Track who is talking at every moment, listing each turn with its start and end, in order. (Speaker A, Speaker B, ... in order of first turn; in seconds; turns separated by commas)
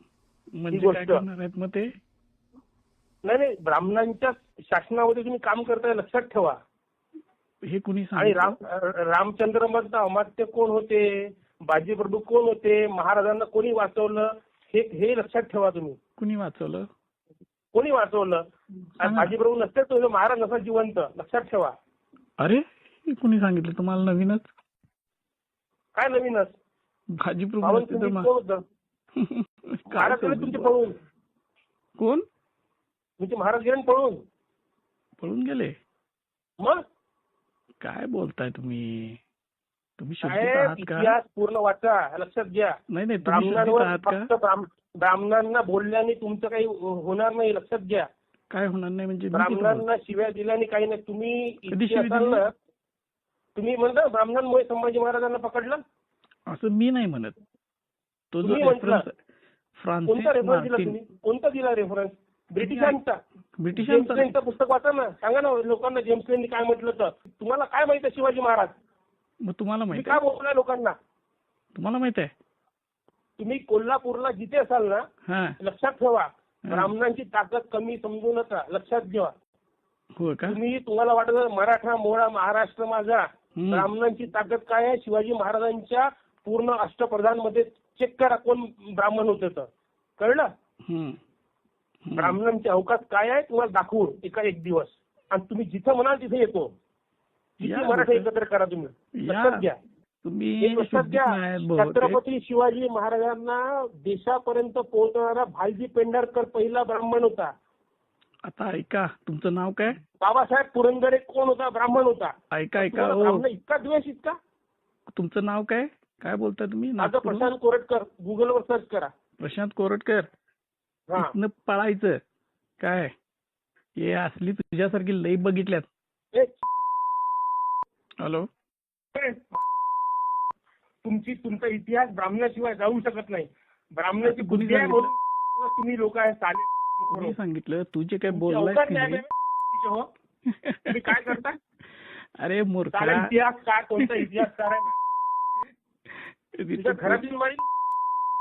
Speaker A: 0.6-1.9, Speaker B: 0.7-1.2, Speaker B: 3.2-6.6, Speaker A: 7.6-8.5, Speaker B: 8.2-16.0, Speaker A: 16.2-16.9, Speaker B: 17.7-18.4, Speaker B: 19.0-21.7, Speaker A: 19.0-19.3, Speaker A: 22.4-24.5, Speaker B: 26.0-26.5, Speaker A: 27.2-28.3, Speaker B: 27.6-28.6, Speaker A: 29.2-30.7, Speaker B: 29.9-30.9, Speaker A: 32.0-32.2, Speaker B: 33.2-34.2, Speaker A: 35.2-35.8, Speaker A: 37.8-39.2, Speaker A: 40.0-41.1, Speaker B: 40.2-48.1, Speaker A: 42.9-44.3, Speaker A: 48.5-49.9, Speaker B: 49.3-52.5, Speaker A: 51.7-52.4, Speaker B: 53.6-55.8, Speaker A: 56.5-57.4, Speaker A: 58.3-59.1, Speaker B: 58.4-59.0, Speaker A: 59.8-61.0, Speaker B: 60.1-63.2, Speaker A: 62.6-63.0, Speaker A: 63.6-64.3, Speaker B: 63.7-68.7, Speaker A: 69.4-70.2, Speaker B: 69.9-71.0, Speaker A: 71.8-72.3, Speaker B: 73.4-75.0, Speaker A: 75.3-75.6, Speaker B: 75.6-79.3, Speaker A: 76.7-76.9, Speaker A: 80.2-80.6, Speaker B: 80.5-89.7, Speaker A: 83.6-83.9, Speaker B: 90.2-90.5, Speaker A: 90.9-91.2, Speaker A: 92.0-92.4, Speaker B: 92.2-96.7, Speaker B: 97.6-99.8, Speaker A: 97.6-98.3, Speaker A: 99.2-99.7, Speaker A: 100.2-102.2, Speaker B: 100.6-107.5, Speaker A: 108.5-110.0, Speaker B: 110.2-114.4, Speaker A: 112.5-113.5, Speaker A: 115.1-117.5, Speaker B: 117.0-119.1, Speaker A: 119.4-120.3, Speaker A: 121.2-122.2, Speaker A: 122.8-123.1, Speaker A: 124.0-125.9, Speaker B: 126.3-126.6, Speaker A: 128.2-128.5, Speaker B: 129.2-129.6, Speaker B: 131.0-137.4, Speaker A: 134.2-135.1, Speaker A: 137.1-139.2, Speaker B: 138.3-140.1, Speaker A: 140.5-141.4, Speaker B: 140.9-141.6, Speaker A: 142.4-143.3, Speaker B: 142.9-144.9, Speaker A: 144.0-144.4, Speaker A: 146.2-147.2, Speaker B: 146.8-147.7